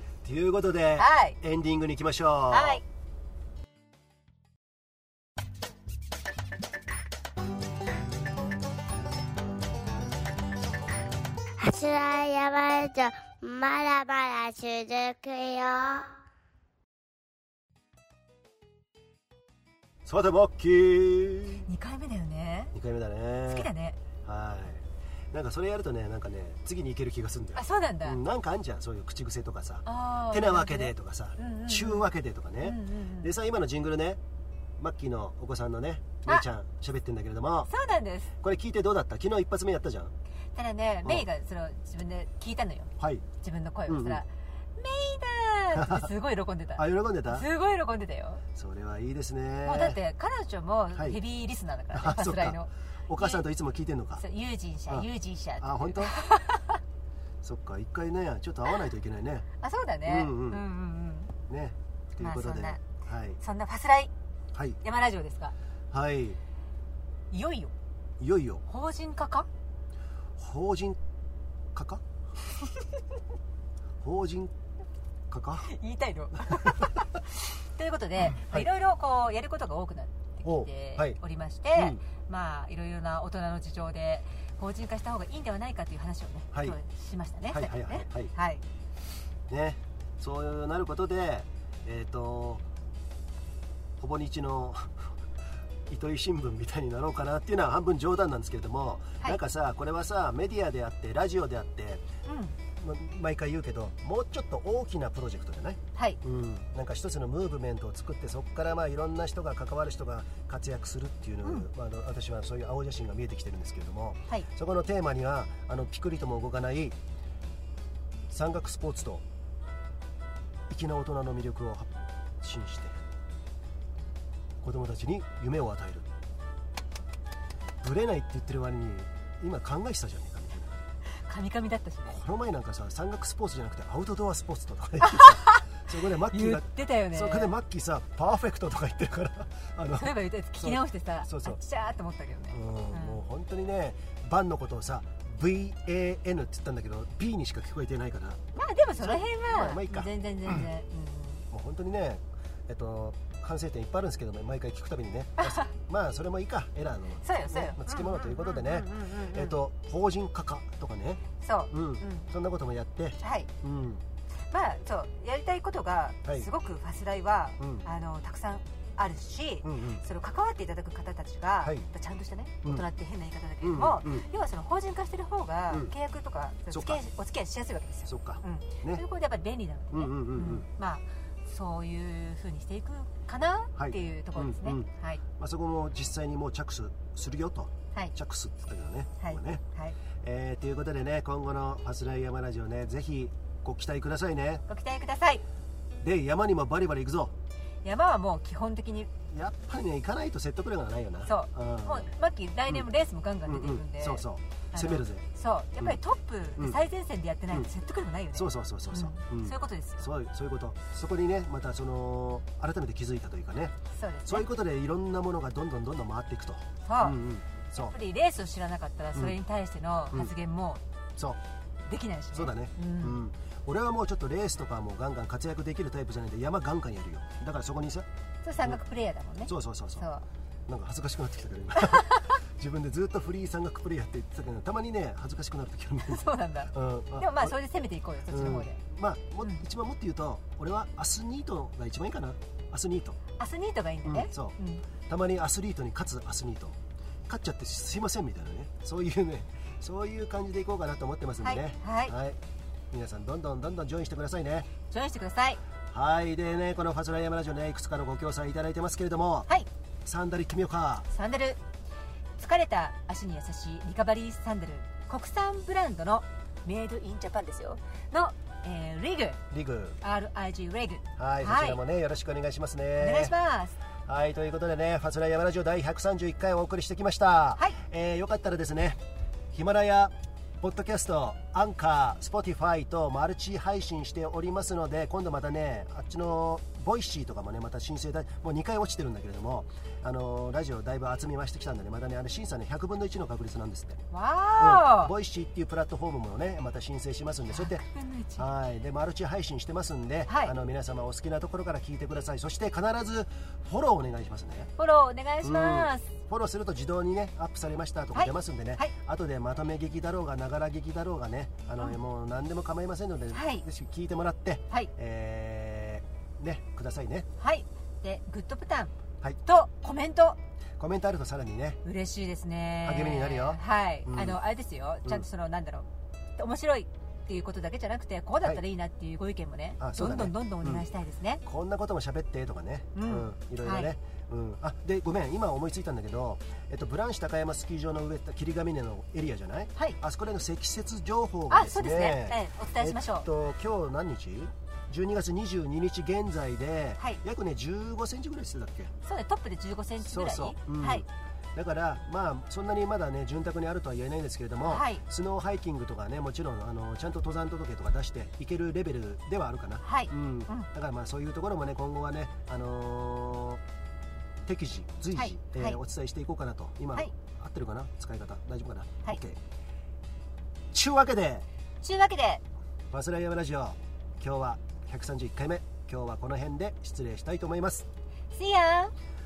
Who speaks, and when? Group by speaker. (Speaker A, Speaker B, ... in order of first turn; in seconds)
Speaker A: 0.2-2.8, 20.1-21.7, 22.7-23.7, 24.2-34.2, 34.8-37.7, 38.4-40.1, 43.0-43.2, 43.9-44.2, 45.8-46.1, 46.8-47.5, 48.5-50.0, 51.9-54.2, 55.6-56.1, 57.4-59.5, 60.1-60.6, 61.5-63.4, 64.5-64.8, 65.9-66.4, 68.2-68.6, 70.4-71.0, 71.7-72.0, 74.0-74.5, 75.3-75.7, 78.4-78.7, 80.5-81.2, 81.8-82.0, 87.5-88.3, 89.5-92.6, 94.0-95.1, 95.9-102.1, 102.8-117.0, 118.3-119.2, 120.7-123.0, 124.6-126.1, 127.8-130.8, 132.1-141.6, 142.5-148.4, 149.0-150.7, 151.5-164.0, 167.6-167.8, 169.6-170.0, 171.6-171.9, 173.6-174.3, 176.7-177.0, 178.1-179.0, 179.9-180.7, 183.8-189.6, 190.2-194.6, 196.0-197.3, 199.3-202.1, 203.5-205.2, 206.6-206.8, 208.3-213.8, 214.3-217.9, 222.3-228.1, 229.5-230.1, 230.7-237.6, 238.3-243.2, 244.1-244.6, 245.1-252.4, 252.9-254.7, 255.9-259.5, 260.0-261.1, 269.5-270.0, 271.2-273.4, 274.1-279.0, 279.5-294.0, 294.6-297.9, 298.4-304.7, 305.4-317.3, 320.8-321.8, 322.8-324.4, 329.8-330.9, 331.4-348.9, 350.0-363.6, 364.4-369.4, 370.7-371.5, 372.9-377.9
Speaker B: 1.0-1.4, 2.5-2.8, 21.7-22.7, 23.5-24.0, 27.6-28.2, 29.9-32.1, 32.6-33.3, 37.7-38.3, 40.5-48.4, 49.6-53.5, 54.2-56.8, 59.6-61.3, 62.2-62.8, 63.4-64.1, 64.8-65.5, 67.3-67.7, 68.7-69.5, 75.6-88.6, 102.3-102.5, 131.2-132.2, 135.0-135.6, 136.3-137.5, 139.9-143.2, 148.6-151.4, 155.4-155.7, 157.2-159.6, 161.4-162.3, 163.2-163.5, 164.5-185.2, 189.2-190.0, 194.7-195.4, 197.8-199.1, 201.3-210.1, 213.9-214.5, 216.8-217.2, 217.7-220.8, 221.9-223.2, 228.4-230.3, 231.8-232.4, 236.1-238.8, 243.4-244.8, 251.4-252.2, 254.9-255.6, 261.1-261.6, 262.4-269.4, 270.0-271.8, 273.0-273.8, 294.1-295.1, 297.5-298.5, 300.3-300.5, 304.8-306.1, 308.1-308.9, 313.3-313.6, 317.4-318.9, 319.4-320.4, 321.8-331.4, 332.9-333.9, 341.5-343.3, 349.0-351.1, 354.6-355.0, 359.8-360.7, 365.1-365.8, 371.8-372.4, 378.3-378.9
Speaker C: 11.6-16.1